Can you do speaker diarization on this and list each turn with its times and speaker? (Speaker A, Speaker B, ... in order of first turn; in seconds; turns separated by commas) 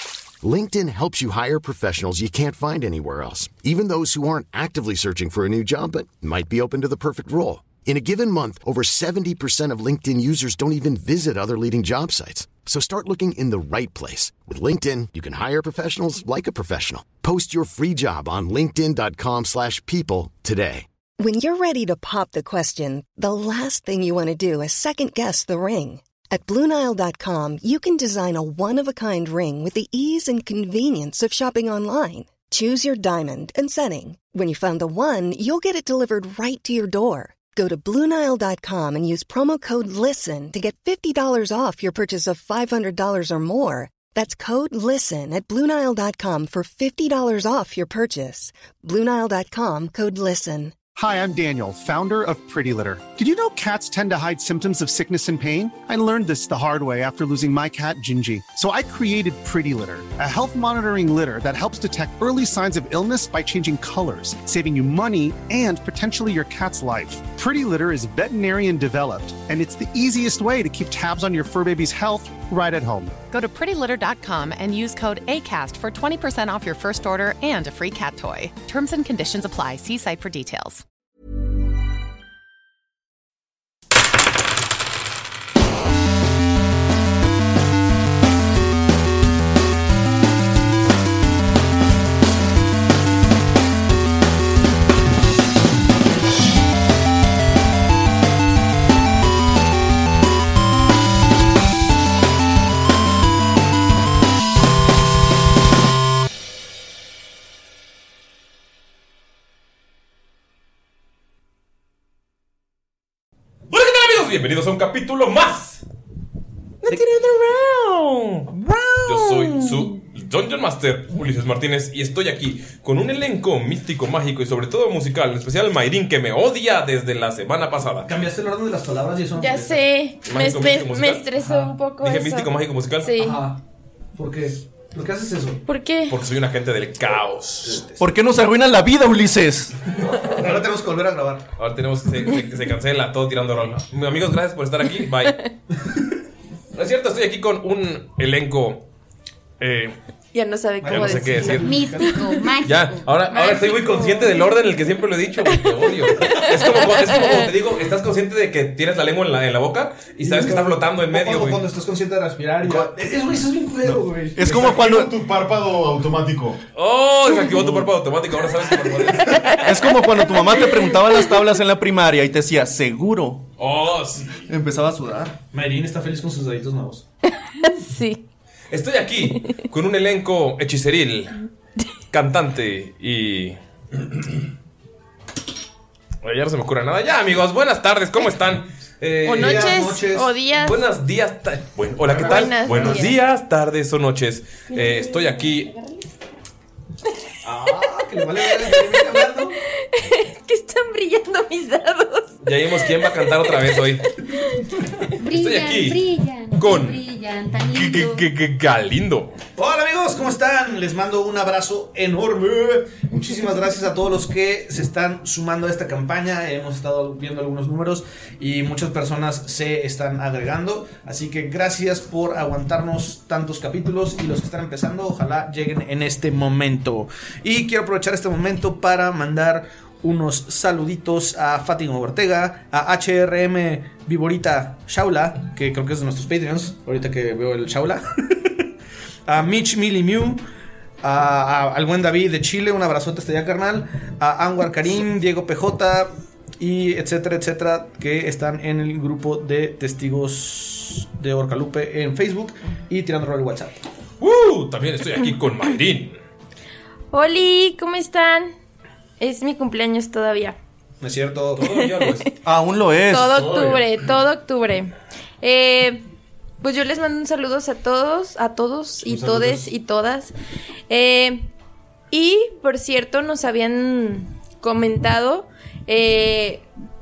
Speaker A: 0.4-20.9, Speaker B: 21.2-50.9, Speaker C: 50.9-73.1, Speaker D: 73.3-80.8, Speaker E: 113.7-115.8, Speaker E: 116.8-128.1, Speaker F: 118.7-119.0, Speaker F: 128.1-129.8, Speaker G: 129.3-133.4, Speaker E: 130.2-131.2, Speaker F: 131.4-131.7, Speaker E: 132.0-133.2, Speaker F: 133.2-133.6, Speaker F: 134.2-135.6, Speaker G: 135.7-136.1, Speaker E: 136.1-137.8, Speaker F: 137.6-138.0, Speaker H: 138.0-139.7, Speaker F: 140.3-141.4, Speaker E: 141.6-145.4, Speaker E: 146.7-148.9, Speaker E: 149.6-149.9, Speaker G: 150.3-152.5, Speaker F: 150.8-152.2, Speaker E: 150.9-151.7, Speaker I: 151.6-153.1, Speaker E: 152.6-161.6, Speaker G: 153.3-154.6, Speaker G: 155.5-157.5, Speaker F: 160.2-164.6, Speaker H: 164.3-165.1, Speaker J: 164.4-166.6, Speaker E: 166.8-169.6, Speaker H: 167.6-167.9, Speaker G: 169.3-169.6, Speaker H: 169.6-173.4, Speaker E: 173.6-174.4, Speaker H: 174.5-175.3, Speaker F: 175.5-177.0, Speaker G: 177.3-178.2, Speaker E: 178.7-181.4, Speaker E: 182.1-183.6, Speaker E: 186.2-189.8, Speaker F: 189.2-190.3, Speaker G: 189.2-190.9, Speaker E: 190.5-195.7, Speaker J: 192.0-193.0, Speaker G: 192.1-193.1, Speaker G: 194.7-196.0, Speaker F: 197.4-199.6, Speaker G: 198.6-199.2, Speaker G: 199.9-204.7, Speaker E: 202.4-204.1, Speaker I: 205.2-208.2, Speaker E: 205.3-207.0, Speaker E: 207.6-209.3, Speaker F: 209.6-238.1, Speaker F: 239.3-240.4, Speaker F: 241.0-253.8, Speaker E: 254.2-256.2, Speaker G: 257.1-258.5, Speaker G: 259.2-260.6, Speaker F: 261.0-261.6, Speaker E: 261.6-262.3, Speaker G: 261.6-262.3, Speaker H: 262.4-263.3, Speaker G: 263.1-266.0, Speaker J: 263.2-263.9, Speaker G: 266.6-270.3, Speaker J: 269.0-269.7, Speaker G: 270.9-271.5, Speaker G: 272.1-276.6